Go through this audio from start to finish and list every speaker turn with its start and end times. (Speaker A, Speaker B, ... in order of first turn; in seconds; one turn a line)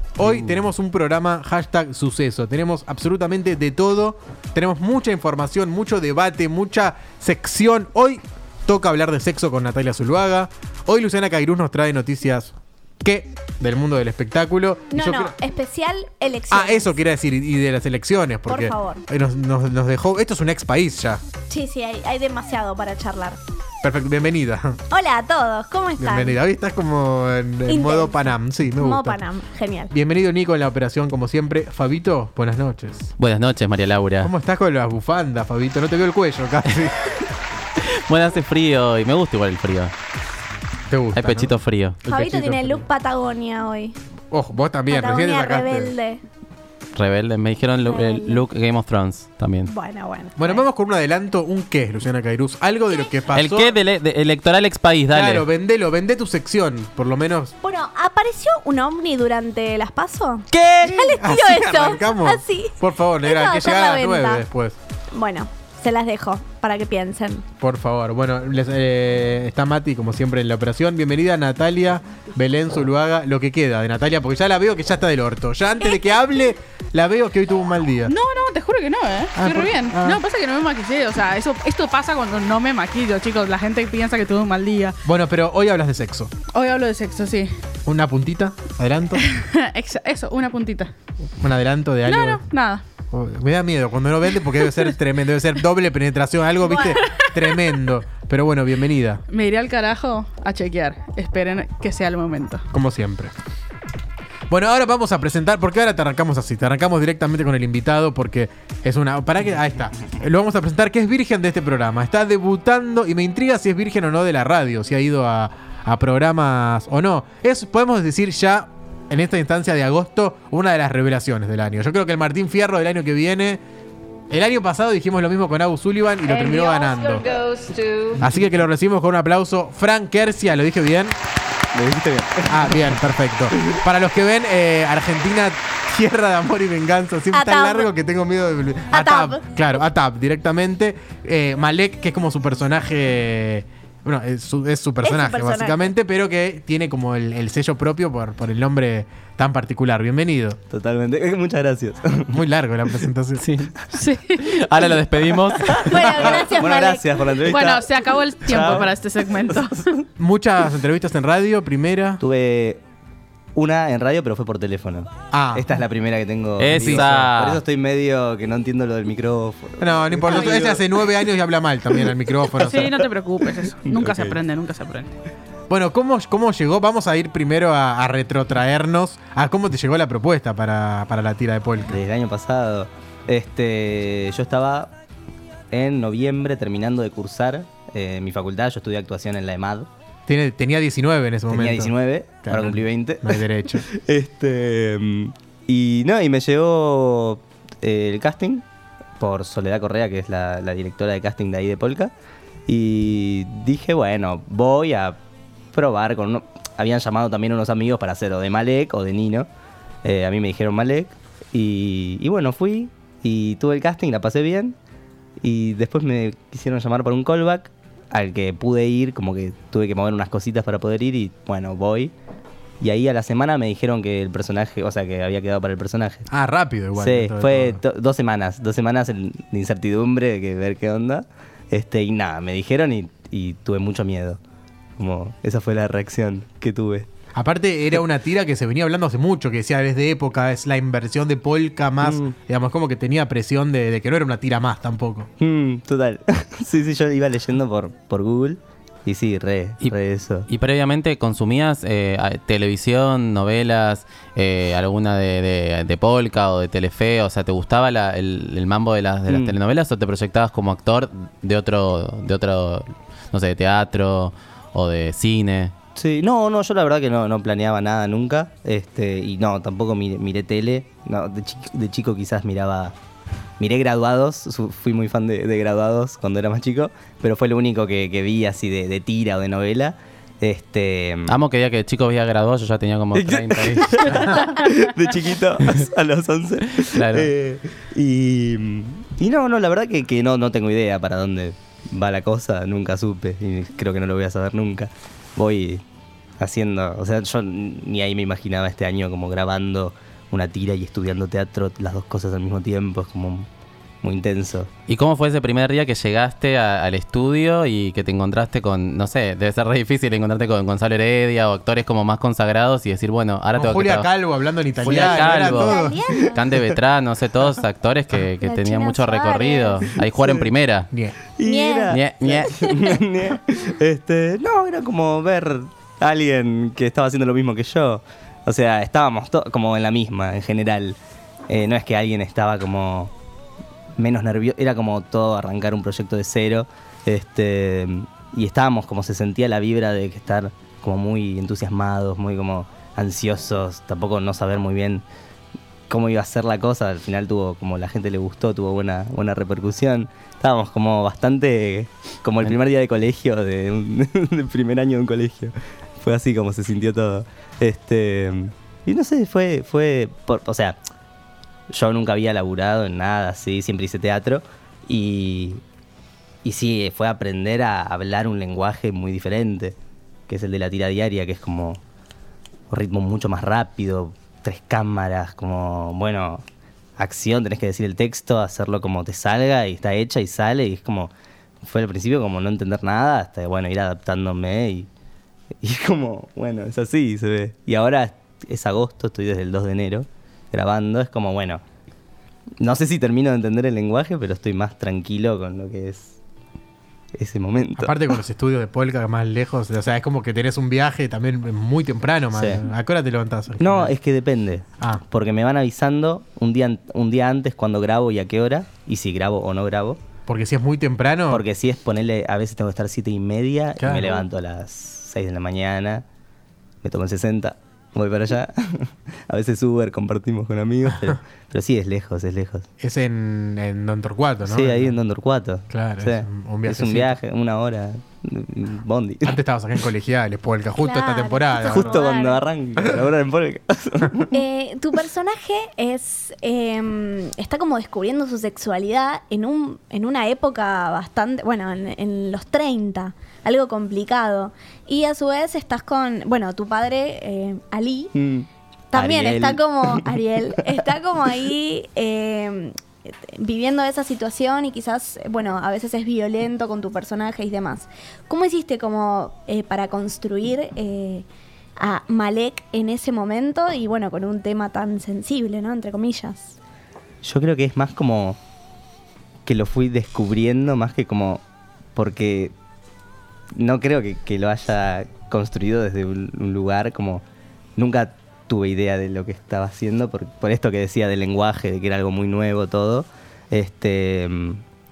Speaker A: 0.2-15.3
Speaker B: 14.9-16.9
Speaker A: 16.5-21.2
Speaker B: 18.5-19.0
Speaker B: 21.5-23.4
Speaker A: 23.8-24.8
Speaker B: 24.9-26.4
Speaker A: 26.0-29.2
Speaker B: 27.7-29.9
Speaker A: 29.9-33.1
Speaker C: 33.2-34.3
Speaker A: 34.2-37.2
Speaker C: 37.8-39.9
Speaker A: 40.9-41.5
Speaker C: 41.1-42.0
Speaker A: 42.1-42.8
Speaker B: 42.1-44.0
Speaker A: 44.3-45.9
Speaker B: 44.9-46.2
Speaker C: 46.9-49.7
Speaker B: 47.9-48.4
Speaker B: 49.6-50.6
Speaker A: 50.4-53.7
Speaker B: 52.9-53.2
Speaker C: 53.3-55.5
Speaker A: 55.1-57.5
Speaker B: 57.6-64.4
Speaker C: 60.5-60.9
Speaker A: 60.9-64.8
Speaker B: 65.1-67.4
Speaker A: 67.6-78.1
Speaker D: 78.0-85.0
Speaker A: 79.3-80.2
Speaker A: 85.0-86.3
Speaker D: 86.5-87.5
Speaker A: 87.8-89.3
Speaker D: 89.2-90.9
Speaker A: 91.4-92.4
Speaker D: 92.0-92.8
Speaker A: 93.1-99.2
Speaker D: 96.7-97.5
Speaker D: 99.3-102.7
Speaker A: 102.7-103.3
Speaker A: 104.5-123.6
Speaker A: 124.3-127.2
Speaker D: 126.4-128.1
Speaker A: 128.2-131.2
Speaker E: 131.7-133.0
Speaker A: 132.4-150.6
Speaker B: 137.3-137.9
Speaker B: 138.9-139.4
Speaker B: 145.0-145.8
Speaker E: 150.7-152.4
Speaker A: 152.3-153.4
Speaker C: 153.4-153.7
Speaker D: 153.9-154.4
Speaker C: 154.3-156.2
Speaker E: 155.6-158.9
Speaker B: 155.9-157.1
Speaker D: 157.4-159.9
Speaker E: 159.5-159.9
Speaker A: 160.2-162.2
Speaker E: 162.2-162.8
Speaker E: 163.5-170.9
Speaker A: 165.3-165.7
Speaker C: 166.6-167.6
Speaker A: 166.7-167.1
Speaker A: 169.8-173.1
Speaker D: 170.3-170.7
Speaker D: 172.6-175.1
Speaker E: 173.8-174.4
Speaker A: 175.7-181.9
Speaker E: 181.9-184.9
Speaker E: 185.7-189.9
Speaker A: 190.3-191.9
Speaker E: 191.5-198.6
Speaker A: 192.4-193.8
Speaker E: 199.2-202.1
Speaker E: 202.7-205.2
Speaker E: 205.7-209.5
Speaker E: 210.0-214.8
Speaker E: 215.4-222.1
Speaker E: 222.8-226.3
Speaker A: 226.3-227.8
Speaker E: 226.9-234.4
Speaker E: 234.9-237.1
Speaker A: 237.3-245.3
Speaker E: 242.0-242.3
Speaker E: 245.4-250.5
Speaker C: 250.5-265.7
Speaker E: 259.3-259.6
Speaker E: 265.9-272.9
Speaker E: 273.6-281.4
Speaker C: 281.3-284.4
Speaker E: 283.1-295.8
Speaker C: 286.9-287.3
Speaker E: 296.4-303.5
Speaker E: 304.0-304.7
Speaker C: 304.9-314.1
Speaker A: 313.6-316.0
Speaker C: 314.8-315.8
Speaker E: 314.8-315.4
Speaker B: 315.3-316.4
Speaker C: 316.3-320.9
Speaker E: 316.4-316.8
Speaker B: 318.4-319.9
Speaker E: 320.0-320.5
Speaker A: 320.9-321.2
Speaker E: 321.4-331.0
Speaker B: 321.4-322.0
Speaker C: 321.9-322.6
Speaker E: 331.5-333.1
Speaker E: 334.0-345.1
Speaker E: 345.9-360.8
Speaker E: 361.7-365.6
Speaker E: 366.4-369.8
Speaker E: 370.3-371.8
Speaker E: 372.7-376.4
Speaker E: 377.0-384.9
Speaker E: 385.6-391.6
Speaker E: 392.6-396.2
Speaker E: 397.1-398.0
Speaker A: 397.8-403.9
Speaker E: 402.3-402.6
Speaker E: 403.6-410.0
Speaker A: 410.3-411.4
Speaker E: 411.3-416.1
Speaker A: 413.8-414.2
Speaker E: 416.8-422.7
Speaker A: 422.8-424.9
Speaker E: 424.4-429.4
Speaker A: 425.7-427.1
Speaker A: 429.2-431.9
Speaker B: 430.8-432.4
Speaker E: 431.6-434.3
Speaker B: 434.3-448.1
Speaker E: 448.1-450.1
Speaker B: 448.9-461.2
Speaker B: 461.8-466.6
Speaker E: 467.2-468.4
Speaker E: 469.4-471.4
Speaker E: 471.9-472.5
Speaker E: 473.5-477.2
Speaker E: 477.8-484.6